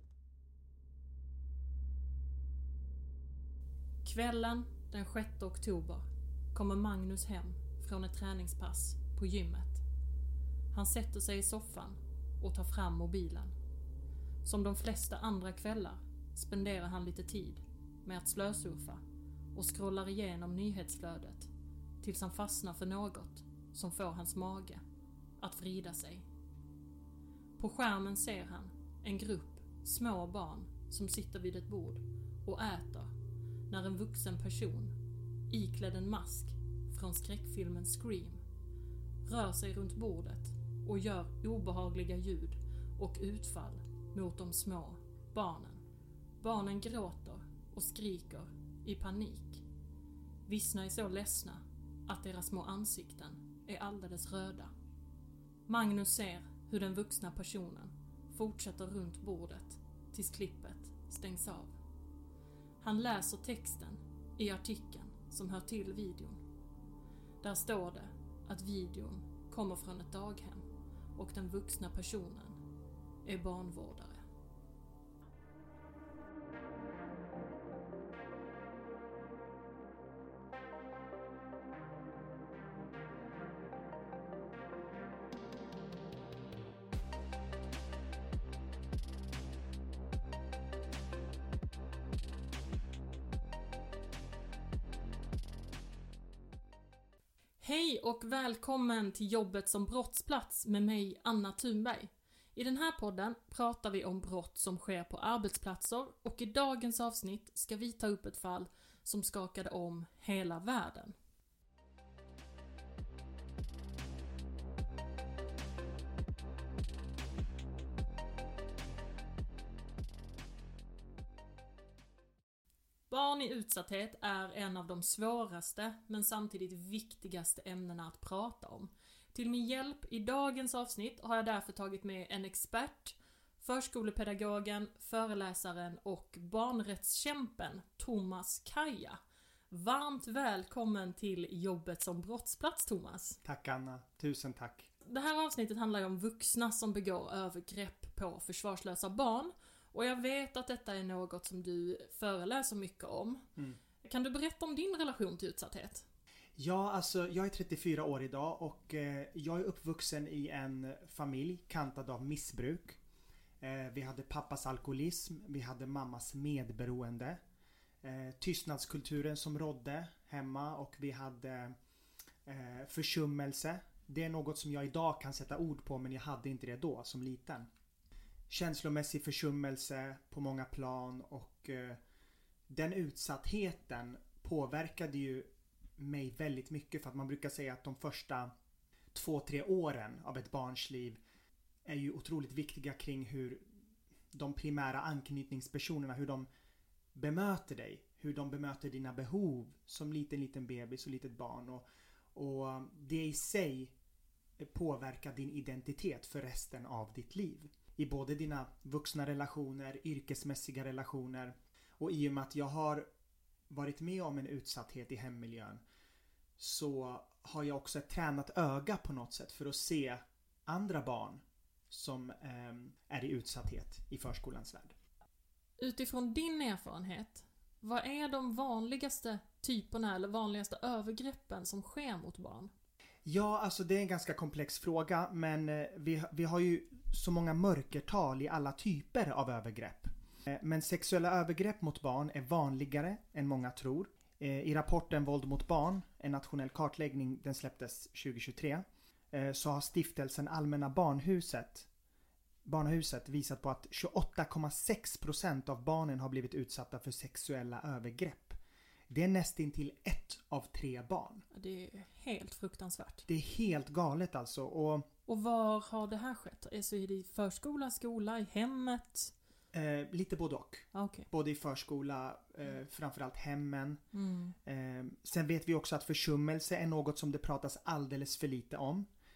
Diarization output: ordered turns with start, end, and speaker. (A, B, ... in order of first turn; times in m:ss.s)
0:04.0-0:09.8 A
0:10.7-0:13.5 A
0:14.4-0:19.0 A
0:19.5-0:21.5 A
0:22.0-0:24.8 A
0:25.4-0:26.3 A
0:27.6-0:33.1 A
0:33.7-0:35.0 A
0:35.5-0:38.4 A
0:39.2-0:45.8 A
0:46.4-0:49.6 A
0:50.5-0:54.7 A
0:55.7-1:01.8 A
1:02.8-1:06.4 A
1:07.4-1:12.6 A
1:13.2-1:14.2 A
1:37.6-1:51.1 A
2:03.1-2:19.2 A
2:19.7-2:23.4 A
2:23.4-2:24.9 B
2:25.0-2:33.4 A
2:34.0-2:36.0 A
2:36.6-2:43.0 B
2:43.6-2:47.4 B
2:48.0-2:51.7 B
2:52.4-2:57.7 B
2:58.5-3:02.0 B
3:02.7-3:08.5 B
3:09.1-3:11.2 B
3:11.8-3:13.6 B
3:14.3-3:16.5 B
3:17.1-3:23.9 B
3:24.6-3:33.1 B
3:33.7-3:35.8 B
3:36.6-3:45.0 B
3:45.8-3:52.7 A
3:53.2-4:11.9 B
4:12.6-4:18.6 B
4:19.1-4:21.4 B
4:21.5-4:23.2 A
4:23.3-4:25.1 B
4:25.3-4:29.3 A
4:29.7-4:34.0 B
4:30.9-4:31.3 A
4:34.1-4:34.5 A
4:34.6-4:39.1 B